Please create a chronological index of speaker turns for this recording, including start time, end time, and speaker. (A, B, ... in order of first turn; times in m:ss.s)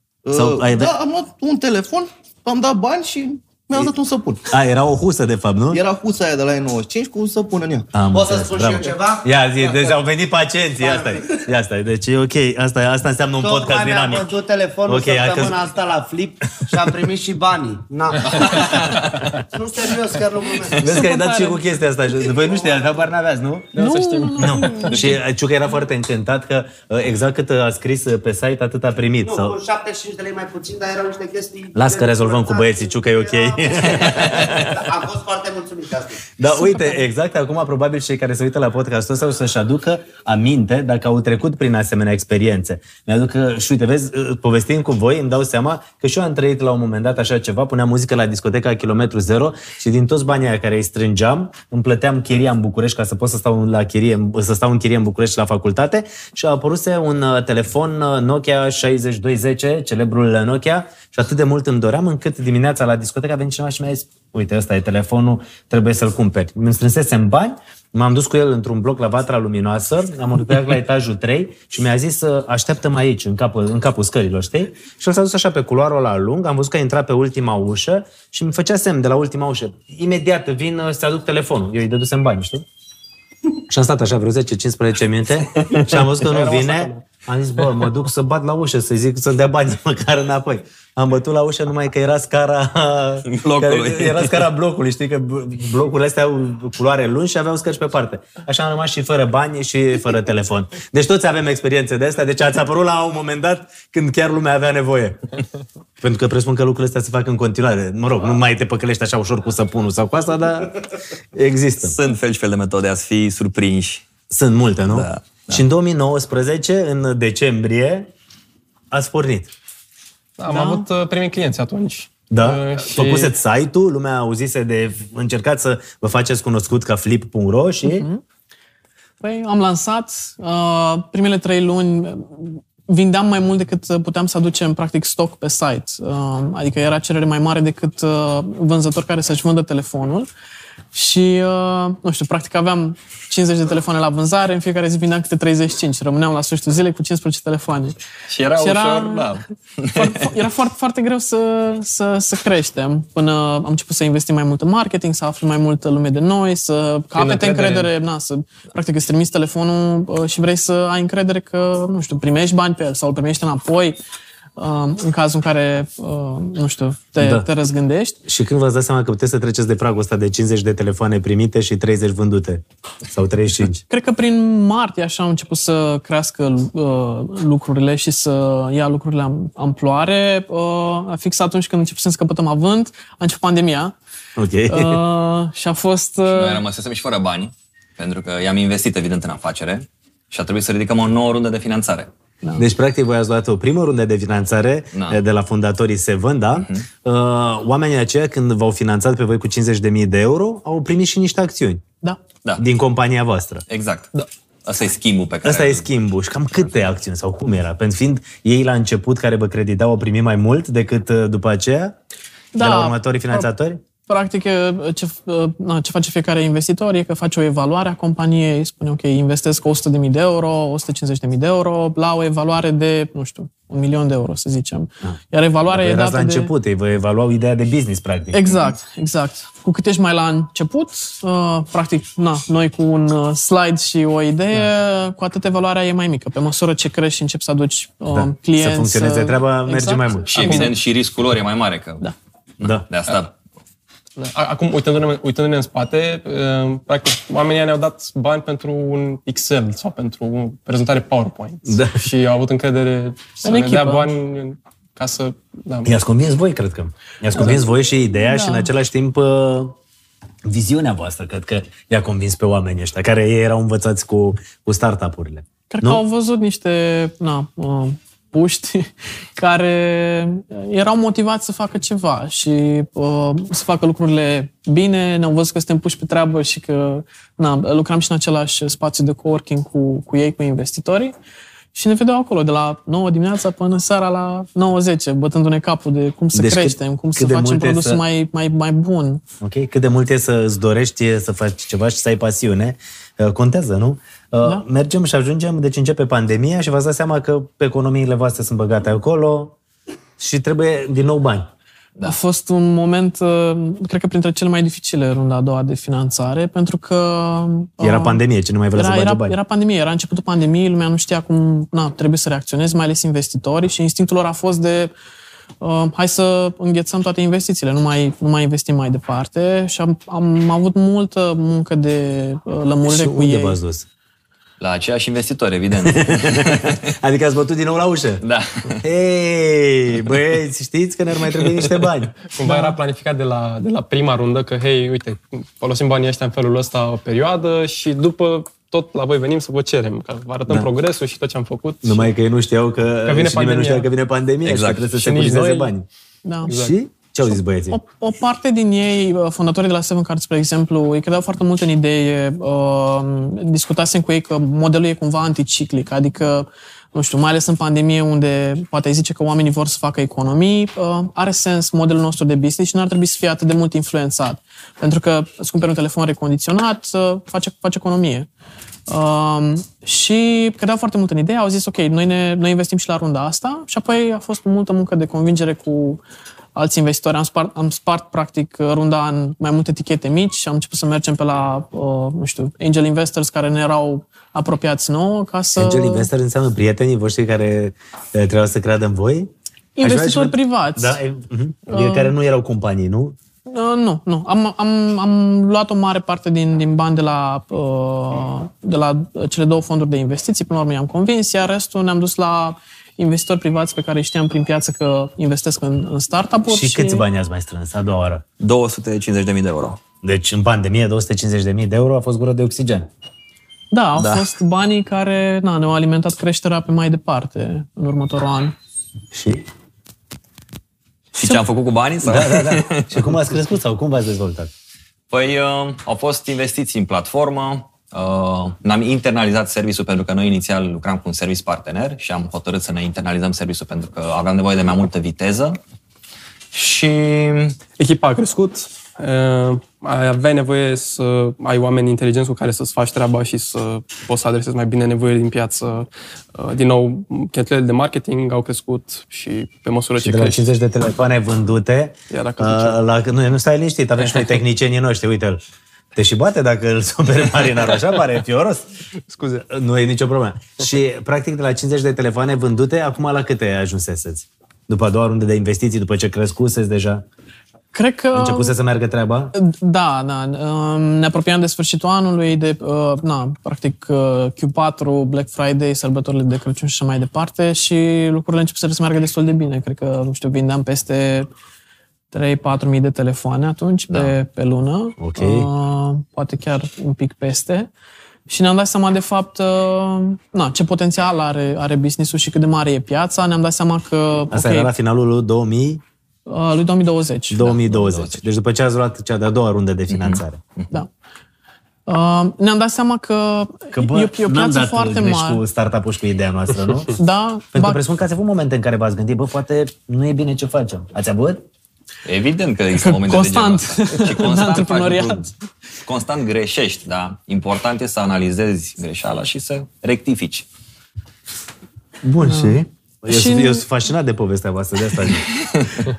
0:00.2-0:04.5 A
0:00.3-0:00.9 B
0:04.5-0:05.8 B
0:05.7-0:07.9 A
0:07.9-0:14.3 B
0:08.1-0:10.0 C
0:10.8-0:11.4 C
0:13.4-0:21.1 C
0:14.9-0:15.6 B
0:18.3-0:19.3 D
0:20.8-0:23.8 B
0:20.9-0:21.6 E
0:22.4-0:22.9 C
0:23.7-0:25.1 F
0:23.8-0:25.2 E
0:24.4-0:29.6 B
0:29.2-0:36.3 C
0:31.8-0:34.9 B
0:36.4-1:22.6 B
0:36.5-0:37.0 E
1:23.7-1:45.2 B
1:25.9-1:27.0 F
1:33.3-1:34.4 D
1:46.0-1:50.8 B
1:51.3-1:52.0 B
1:51.8-1:54.1 D
1:54.3-1:58.1 B
1:54.9-1:55.6 D
1:58.9-1:59.5 B
2:00.4-2:03.4 F
2:00.5-2:00.9 E
2:02.3-2:08.1 B
2:07.8-2:08.2 E
2:09.2-2:20.3 E
2:20.9-2:28.0 E
2:28.3-2:30.4 D
2:28.5-2:29.4 E
2:29.9-2:44.0 E
2:37.2-2:37.9 F
2:44.6-2:48.2 E
2:47.2-2:47.5 B
2:48.2-2:53.8 B
2:53.9-3:03.9 E
3:04.4-3:05.0 B
3:04.7-3:06.6 E
3:06.3-3:12.1 D
3:12.6-3:21.8 B
3:14.9-3:15.2 D
3:16.6-3:16.9 D
3:22.6-3:23.6 B
3:23.7-3:24.1 D
3:24.6-3:25.9 D
3:25.4-3:32.0 B
3:32.5-3:33.5 E
3:32.6-3:33.8 B
3:34.1-3:46.5 E
3:45.7-3:48.7 B
3:48.3-4:00.7 E
3:58.1-4:00.7 B
4:00.3-4:03.3 D
4:04.2-4:16.0 F
4:11.7-4:12.0 B
4:13.4-4:14.1 E
4:15.8-4:19.8 B
4:18.2-4:18.7 E
4:20.4-4:26.0 B
4:25.7-4:41.1 E
4:41.7-4:49.2 E
4:46.4-4:48.0 B
4:49.4-4:59.6 B
5:00.2-5:01.5 B
5:02.0-5:08.2 E
5:07.8-5:09.4 B
5:08.7-5:14.9 E
5:15.6-5:23.6 E
5:22.9-5:23.9 B
5:24.6-5:26.8 D
5:25.9-5:28.2 B
5:28.2-5:28.8 D
5:28.8-5:32.1 B
5:31.4-5:31.7 D
5:32.3-5:42.1 F
5:32.4-5:32.8 E
5:41.8-5:45.9 B
5:43.1-5:43.9 F
5:44.4-5:44.9 D
5:44.9-5:45.7 F
5:46.2-5:46.5 E
5:46.5-5:46.8 F
5:46.5-5:47.8 B
5:47.7-6:08.3 E
6:08.9-6:16.0 E
6:16.6-6:26.1 E
6:25.6-6:29.3 B
6:29.8-6:31.0 E
6:29.8-6:33.2 B
6:31.7-6:32.1 E
6:33.5-6:47.0 E
6:46.5-6:48.2 B
6:48.4-6:49.8 D
6:50.0-6:52.9 B
6:53.7-6:58.6 E
6:54.0-6:54.3 D
6:59.1-6:59.4 B
7:01.2-7:01.4 B
7:01.2-7:03.1 D
7:02.0-7:04.5 B
7:05.1-7:15.6 D
7:16.5-7:17.6 D
7:17.8-7:30.4 F
7:30.0-7:35.4 B
7:32.1-7:32.8 F
7:36.0-7:38.7 B
7:39.2-7:47.0 B
7:47.7-7:48.6 E
7:48.1-7:49.3 B
7:49.4-8:01.3 E
8:02.1-8:07.7 E
8:03.9-8:04.1 D
8:05.0-8:05.5 B
8:08.3-8:14.7 E
8:14.3-8:15.8 B
8:16.3-8:17.6 E
8:17.3-8:20.4 B
8:17.4-8:18.2 D
8:19.9-8:20.8 D
8:21.9-8:25.4 E
8:23.7-8:27.0 B
8:27.0-8:27.8 E
8:27.5-8:31.4 B
8:32.0-8:35.3 D
8:32.7-8:35.3 E
8:35.8-8:40.5 D
8:42.0-8:45.3 B
8:42.2-8:43.6 E
8:45.4-8:45.8 D